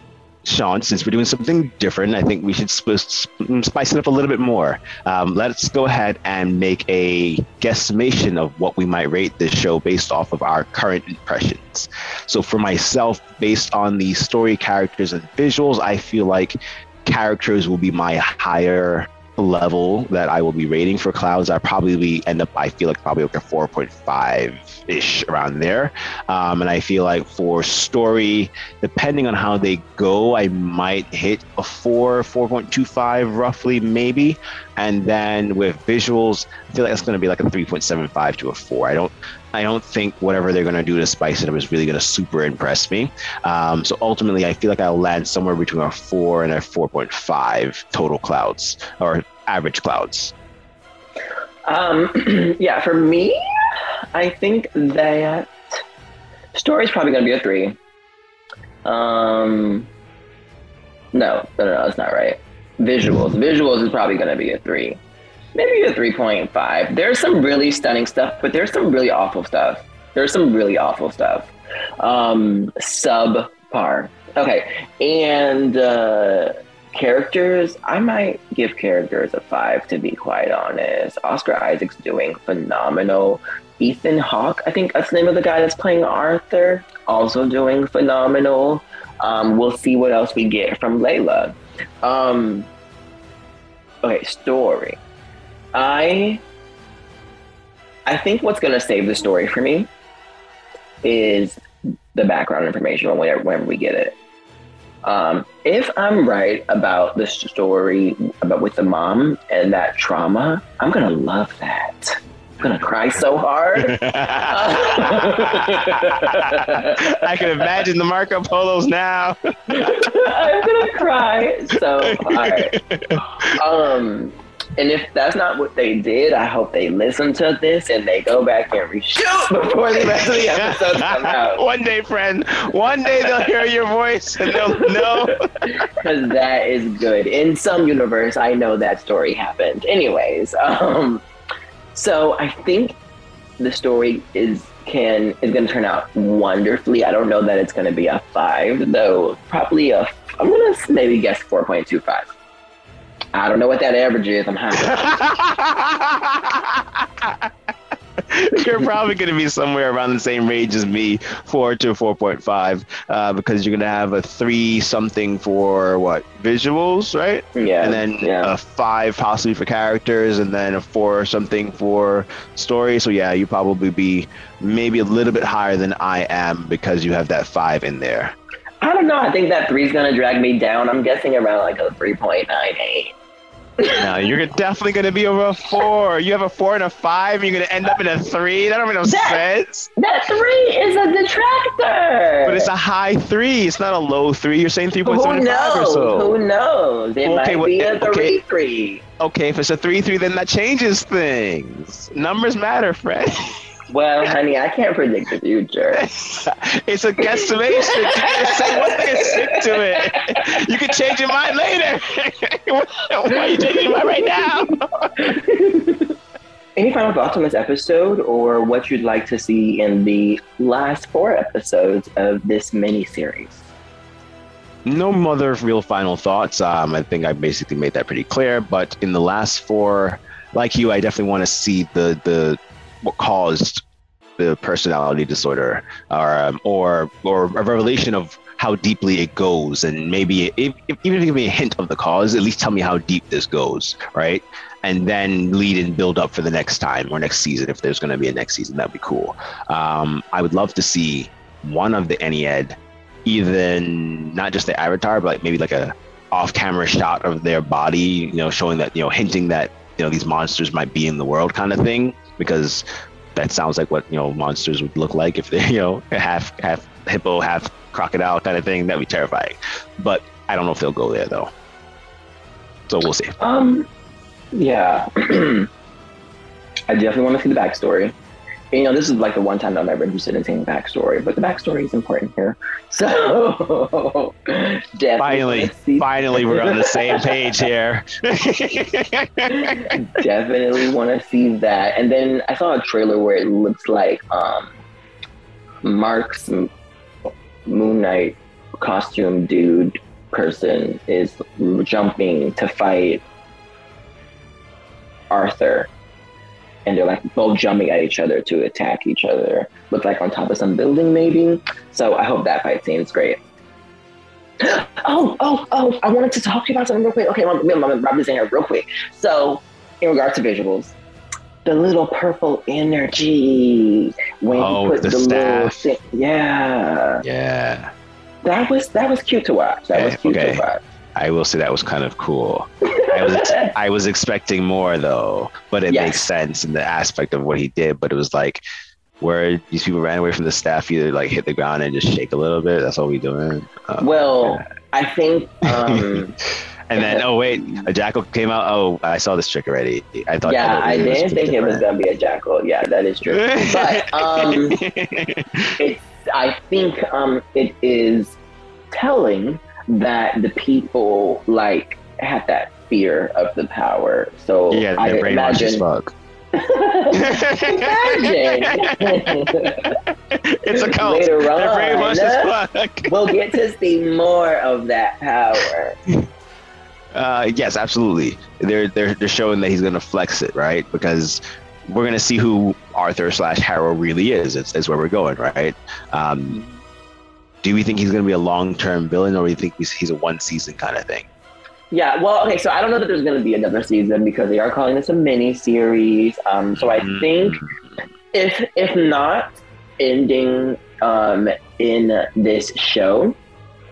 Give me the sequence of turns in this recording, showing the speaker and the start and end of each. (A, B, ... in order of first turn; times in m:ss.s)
0:00.4-0:50.3 A
0:51.7-0:53.4 B
0:54.1-0:55.6 B
0:56.5-0:57.8 B
0:58.8-0:59.9 B
1:01.1-1:05.0 B
1:05.6-1:32.7 B
1:34.0-1:35.0 B
1:35.7-1:36.4 B
1:38.1-1:39.9 B
1:41.0-1:41.6 B
1:42.1-1:44.2 B
1:45.0-1:57.2 B
1:53.8-2:00.1 A
1:59.7-2:02.7 B
2:02.0-2:03.6 A
2:03.5-2:11.6 B
2:09.9-2:15.9 A
2:14.5-2:21.2 B
2:21.9-2:23.0 B
2:23.6-2:32.3 B
2:33.3-2:35.2 B
2:34.8-2:37.5 A
2:38.2-2:58.4 A
2:47.6-2:48.5 B
2:58.8-3:03.2 B
3:03.8-3:04.1 B
3:03.9-3:09.9 A
3:09.0-3:09.4 B
3:10.0-3:12.7 B
3:12.4-3:16.4 A
3:15.0-3:19.0 B
3:17.2-3:18.4 A
3:19.2-3:23.6 A
3:23.9-3:26.0 B
3:25.9-3:35.1 A
3:27.4-3:30.4 B
3:33.4-3:34.5 B
3:35.2-3:36.1 B
3:36.8-3:43.7 B
3:44.8-3:53.8 A
3:54.4-4:22.8 A
4:23.4-4:31.5 A
4:32.9-4:33.4 A
4:33.4-4:33.9 B
4:34.5-4:35.7 B
4:36.9-4:38.2 B
4:38.7-4:47.5 B
4:45.2-4:49.9 A
4:49.5-4:54.8 B
4:55.8-4:56.7 B
4:57.7-5:03.2 B
5:05.3-5:05.9 B
5:06.9-5:13.4 B
5:14.6-5:21.0 B
5:21.6-5:27.2 B
5:24.5-5:25.8 A
5:27.2-5:27.9 A
5:28.4-5:30.8 B
5:29.9-5:30.6 A
5:31.2-5:38.6 A
5:32.9-5:33.7 B
5:35.9-5:36.3 B
5:39.2-5:44.6 A
5:44.0-5:46.4 B
5:45.8-5:46.2 A
5:46.9-5:51.8 A
5:47.0-5:47.8 B
5:50.4-5:54.8 B
5:53.3-5:55.7 A
5:55.8-5:58.4 B
5:58.9-6:05.8 B
6:04.7-6:06.1 A
6:06.6-6:10.0 B
6:07.1-6:13.2 A
6:10.8-6:12.5 B
6:13.1-6:16.0 B
6:17.1-6:26.6 A
6:27.6-6:31.3 A
6:31.9-6:37.6 B
6:36.8-6:37.8 A
6:38.3-6:43.4 B